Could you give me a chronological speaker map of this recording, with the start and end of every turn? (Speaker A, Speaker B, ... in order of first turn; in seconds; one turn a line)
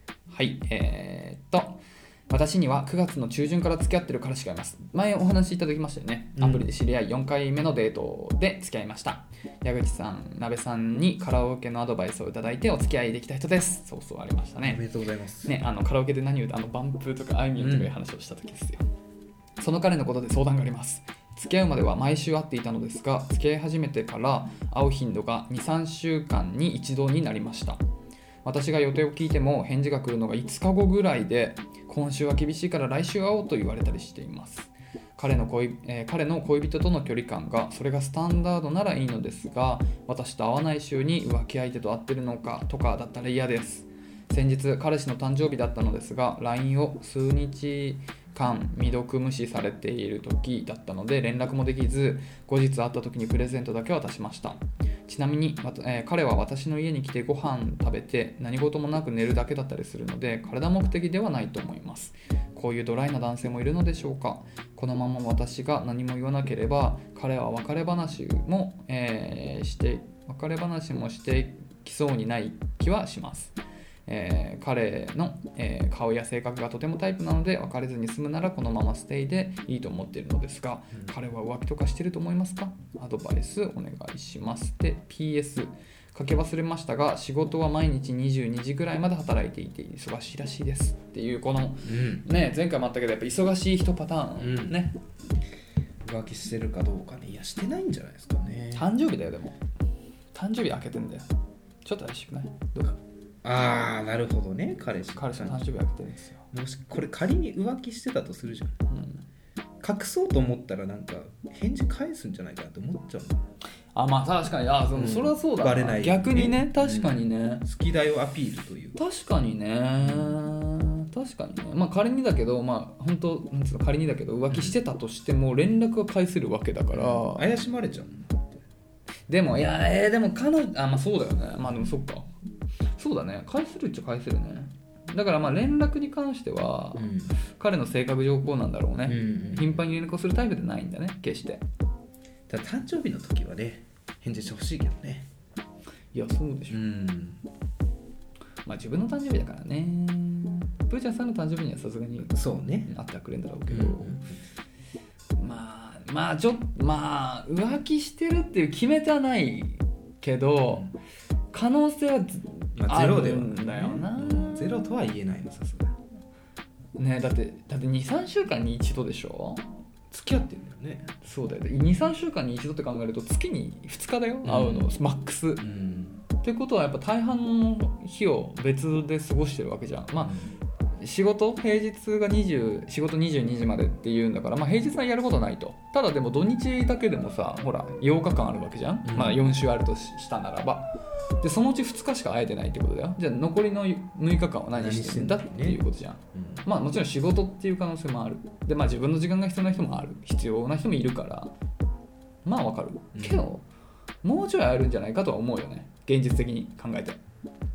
Speaker A: 0.3-14.8
Speaker B: 6.3-6.7
Speaker B: 14.6-15.5
Speaker A: 15.4-18.8
Speaker B: 17.6-17.9
Speaker A: 19.6-27.8
Speaker A: 28.4-73.5
Speaker A: 74.1-95.0
Speaker B: 91.8-92.3
Speaker B: 94.4-94.8
Speaker B: 96.0-98.9
Speaker A: 98.7-99.5
Speaker A: 100.3-101.3
Speaker A: 101.8-103.0
Speaker B: 103.4-105.7
Speaker A: 105.1-106.5
Speaker B: 106.5-108.8
Speaker A: 108.9-109.2
Speaker B: 109.8-113.4
Speaker A: 113.9-117.6
Speaker B: 114.9-119.0
Speaker A: 119.0-127.5
Speaker B: 120.0-120.4
Speaker B: 124.5-124.8
Speaker B: 126.9-128.6
Speaker A: 129.3-132.3
Speaker A: 132.9-141.6
Speaker B: 136.9-137.3
Speaker B: 139.1-139.8
Speaker B: 142.5-145.3
Speaker A: 146.1-146.8
Speaker B: 146.7-147.4
Speaker A: 148.6-154.2
Speaker B: 152.3-152.9
Speaker B: 153.7-154.4
Speaker A: 155.4-160.9
Speaker B: 160.6-160.9
Speaker A: 161.5-164.6
Speaker B: 162.8-165.9
Speaker A: 166.9-169.8
Speaker B: 170.1-171.1
Speaker A: 171.2-175.7
Speaker B: 174.4-174.9
Speaker B: 175.6-176.2
Speaker A: 176.4-180.4
Speaker B: 180.2-180.5
Speaker A: 181.0-201.5
Speaker B: 189.1-189.4
Speaker B: 194.8-195.8
Speaker B: 196.3-196.6
Speaker A: 202.4-203.7
Speaker B: 203.1-203.5
Speaker A: 204.2-207.2